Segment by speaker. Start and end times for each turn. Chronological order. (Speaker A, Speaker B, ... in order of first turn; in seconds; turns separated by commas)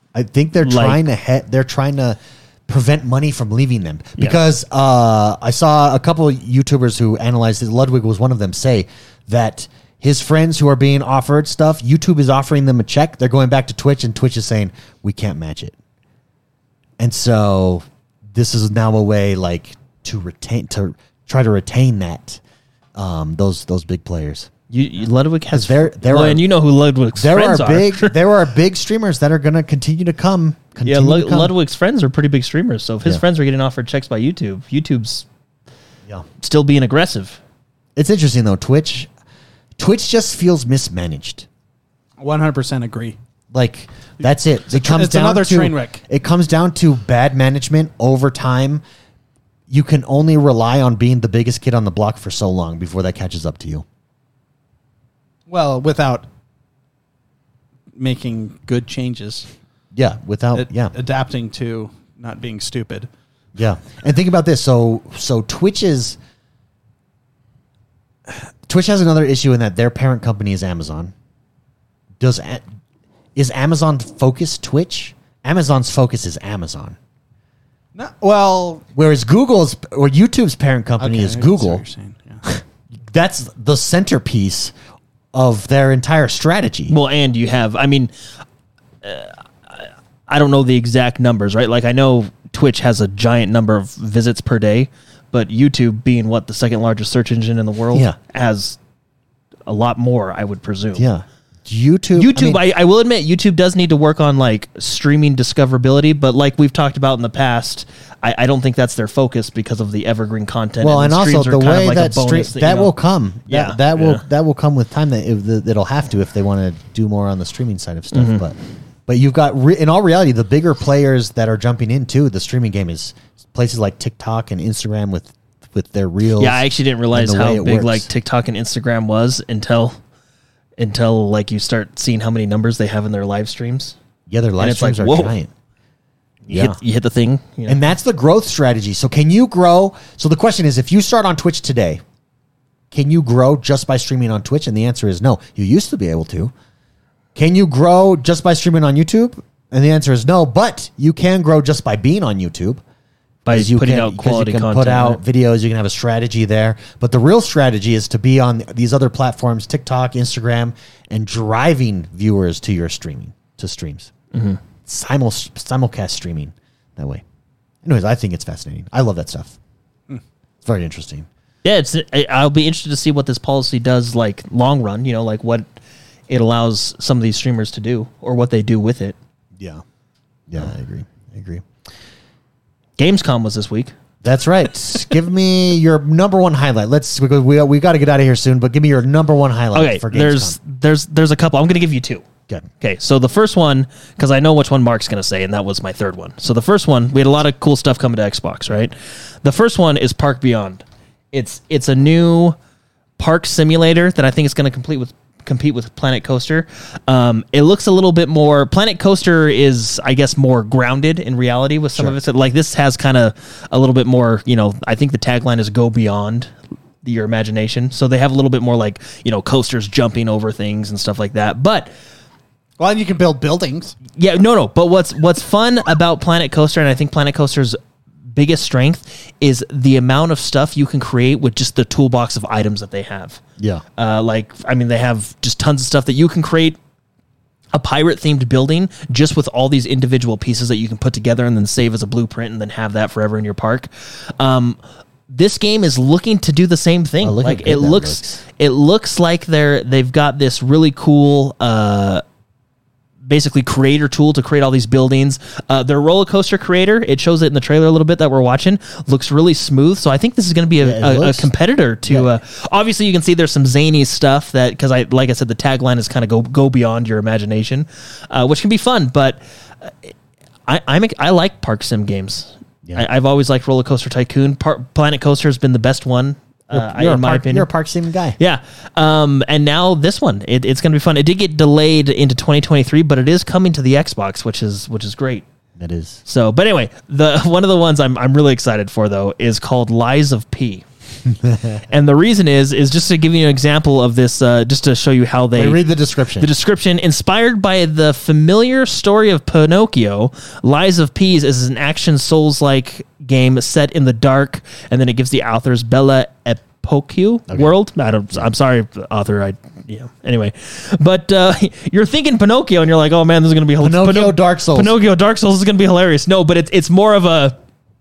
Speaker A: 0.1-15.7, Speaker B: 0.6-1.0, Speaker A: 17.0-22.4, Speaker A: 22.9-24.5, Speaker B: 24.7-28.1, Speaker A: 25.5-26.5, Speaker A: 27.1-31.5, Speaker B: 30.8-35.2, Speaker B: 36.4-37.4, Speaker A: 38.0-39.1, Speaker A: 39.8-41.5, Speaker C: 42.2-43.2, Speaker A: 43.5-48.8, Speaker C: 44.7-46.0, Speaker A: 49.7-53.8, Speaker C: 55.5-56.2, Speaker C: 58.0-59.5, Speaker A: 59.9-60.9, Speaker C: 60.5-63.1, Speaker A: 63.5-66.2, Speaker A: 68.6-71.1, Speaker A: 72.2-72.6, Speaker A: 73.3-77.0, Speaker C: 78.0-78.8, Speaker A: 78.9-81.8, Speaker C: 81.0-82.4, Speaker A: 82.4-84.7, Speaker A: 85.3-86.9, Speaker B: 86.9-88.1, Speaker B: 89.0-98.8, Speaker B: 99.7-101.0, Speaker A: 101.0-102.6, Speaker B: 102.2-112.9, Speaker A: 110.8-118.5, Speaker B: 113.5-114.2, Speaker B: 118.1-118.5, Speaker A: 119.1-128.1, Speaker B: 126.4-130.0, Speaker B: 130.8-133.9, Speaker A: 134.3-135.5, Speaker B: 134.6-135.3, Speaker A: 136.5-136.8, Speaker B: 136.5-137.8, Speaker A: 137.7-142.0, Speaker A: 142.9-146.5, Speaker A: 147.3-152.8, Speaker B: 153.4-155.2, Speaker A: 153.5-164.1, Speaker B: 164.3-164.6, Speaker A: 164.8-167.2, Speaker A: 167.8-169.6, Speaker A: 170.6-171.3, Speaker B: 171.6-175.7, Speaker B: 176.3-179.2, Speaker A: 179.6-179.8, Speaker A: 180.5-181.6, Speaker B: 183.0-183.9, Speaker A: 184.2-190.6, Speaker B: 189.7-192.3, Speaker B: 192.8-202.6, Speaker B: 203.2-221.9, Speaker C: 222.8-223.9, Speaker B: 224.2-227.8, Speaker B: 228.3-233.4, Speaker A: 233.6-233.8, Speaker B: 234.0-236.8, Speaker B: 237.7-244.8, Speaker B: 245.3-252.2, Speaker A: 247.2-248.4, Speaker B: 253.2-270.1, Speaker A: 260.8-261.5, Speaker A: 262.0-262.3, Speaker B: 270.7-277.7, Speaker A: 276.7-278.4, Speaker B: 278.4-285.4, Speaker A: 285.8-286.2, Speaker B: 286.2-290.9, Speaker A: 291.4-291.8, Speaker B: 291.9-295.8, Speaker A: 295.6-296.5, Speaker B: 296.4-317.6, Speaker A: 313.8-314.9